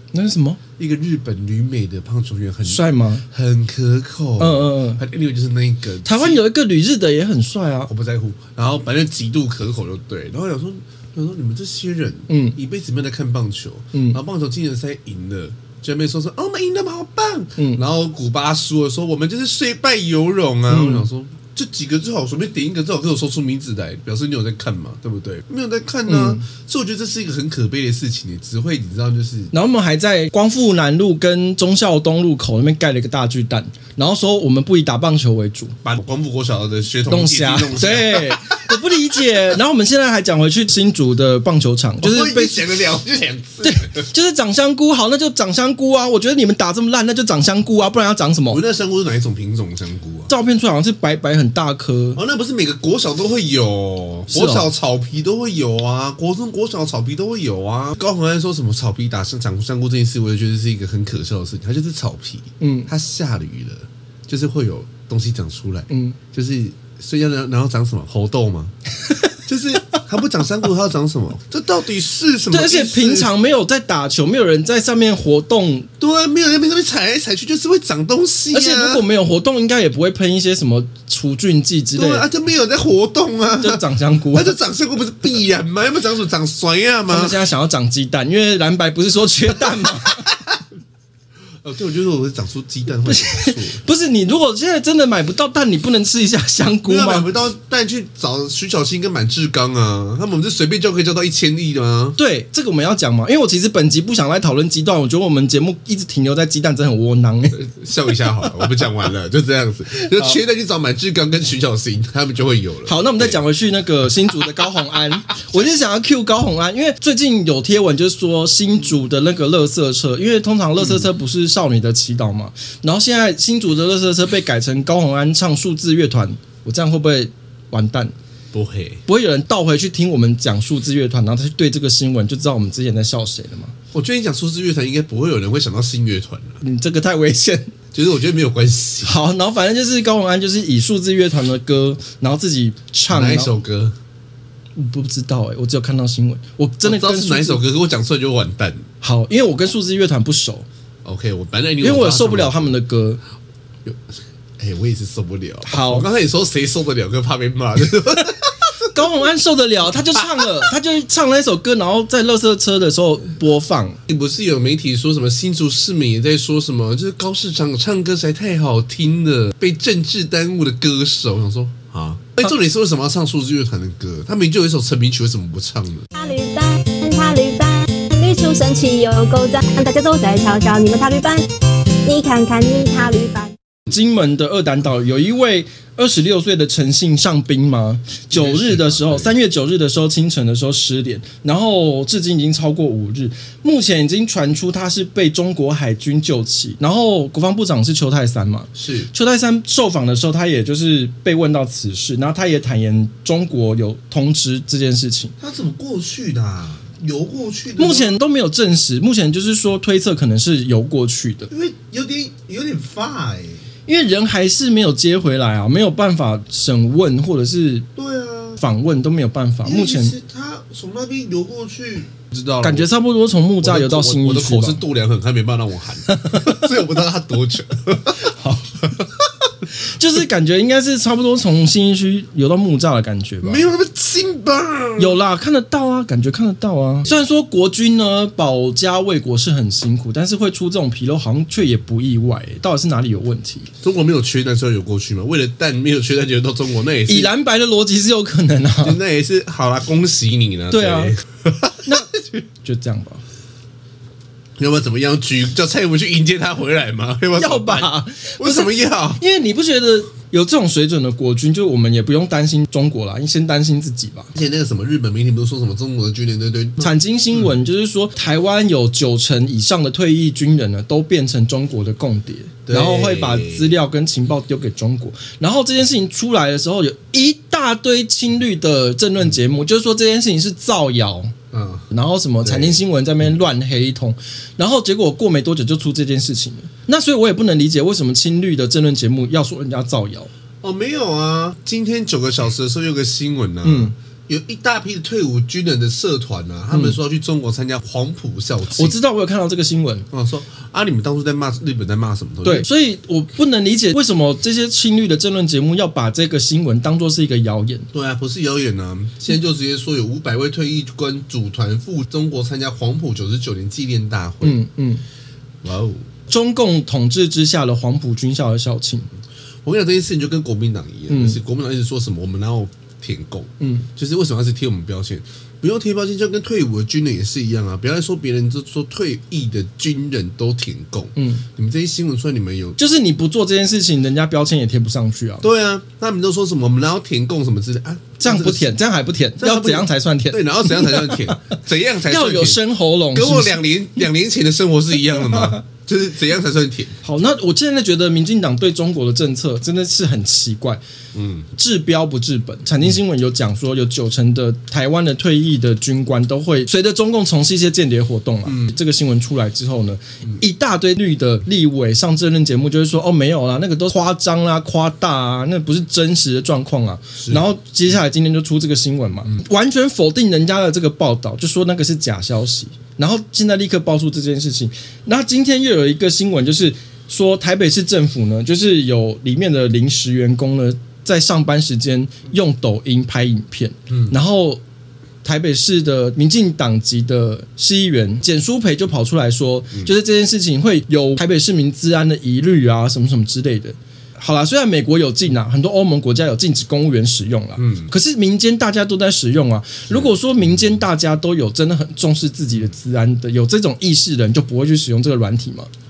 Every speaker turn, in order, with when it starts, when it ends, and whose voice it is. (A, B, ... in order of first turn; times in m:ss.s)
0:00.1-0:00.6 A
0:00.8-0:06.4 B
0:02.6-0:03.2 A
0:04.4-0:05.0 A
0:06.0-0:07.9 A
0:07.9-0:29.5 B
0:12.3-0:12.6 A
0:17.6-0:17.8 A
0:20.7-0:21.1 A
0:26.1-0:26.4 A
0:29.5-0:35.8 A
0:35.8-0:38.8 B
0:37.1-0:42.7 A
0:42.0-0:44.0 B
0:43.6-0:48.6 A
0:48.5-0:50.3 B
0:50.3-0:52.2 A
0:52.1-1:08.7 B
0:54.3-0:54.7 A
1:02.6-1:02.9 A
1:05.9-1:06.2 A
1:09.4-1:13.3 B
1:12.5-1:15.9 A
1:16.0-1:19.0 B
1:18.5-1:22.3 A
1:22.0-1:27.4 B
1:23.6-1:24.6 A
1:27.1-1:30.3 A
1:31.6-1:33.8 B
1:33.0-1:37.3 A
1:36.8-1:42.2 B
1:42.2-1:47.6 A
1:47.5-1:53.4 B
1:48.4-1:48.7 A
1:50.0-1:50.4 A
1:52.8-2:08.1 A
2:00.8-2:01.1 B
2:08.5-2:09.0 B
2:09.1-2:13.7 A
2:13.9-2:16.6 B
2:16.6-2:17.7 A
2:17.9-2:19.2 B
2:19.0-2:23.5 A
2:23.1-2:23.9 B
2:24.7-2:27.6 A
2:26.8-2:28.9 B
2:29.0-2:30.7 A
2:31.0-2:32.7 B
2:31.8-2:33.2 A
2:33.8-2:38.9 B
2:35.6-2:36.0 A
2:38.9-2:44.0 A
2:44.1-2:56.1 B
2:56.1-3:01.5 C
3:02.0-3:03.5 C
3:03.9-3:25.3 A
3:08.3-3:09.3 B
3:18.7-3:19.1 B
3:25.4-3:28.2 B
3:27.8-3:31.5 A
3:31.5-3:33.6 B
3:33.8-3:37.9 A
3:38.0-3:38.6 B
3:38.6-3:40.2 A
3:39.6-3:42.9 B
3:42.6-3:44.8 A
3:43.6-3:48.3 B
3:46.1-3:46.6 A
3:48.2-3:48.7 A
3:48.8-3:49.2 B
3:49.8-3:53.7 A
3:53.4-3:55.2 B
3:55.0-4:03.7 A
4:03.8-4:07.3 B
4:07.1-4:09.0 A
4:08.8-4:12.4 B
4:10.7-4:11.1 A
4:11.8-4:12.1 A
4:12.6-4:13.2 A
4:14.6-4:19.2 B
4:17.3-4:24.3 A
4:24.3-4:26.9 B
4:26.8-4:41.3 A
4:32.6-4:33.7 B
4:41.5-4:41.9 B
4:41.9-4:50.3 A
4:42.4-4:42.8 B
4:50.6-4:59.0 B
4:53.6-4:53.9 A
4:56.7-4:57.0 A
4:58.8-5:00.1 A
5:00.1-5:02.7 B
5:02.4-5:07.9 A
5:07.9-5:14.6 B
5:14.4-5:15.0 A
5:15.6-5:16.0 B
5:16.3-5:19.1 A
5:19.6-5:32.8 B
5:21.1-5:21.4 A
5:23.6-5:23.9 A
5:31.2-5:31.4 A
5:32.8-5:35.4 A
5:35.4-5:38.7 B
5:38.2-5:41.4 A
5:39.4-5:42.6 B
5:42.0-5:43.6 A
5:43.1-5:47.0 B
5:45.0-5:45.6 A
5:47.0-5:50.8 A
5:51.1-5:51.5 B
5:51.5-6:24.6 A
5:58.4-5:58.7 B
6:07.2-6:07.5 B
6:23.9-6:24.2 B
6:25.2-6:45.7 A
6:37.6-6:37.9 B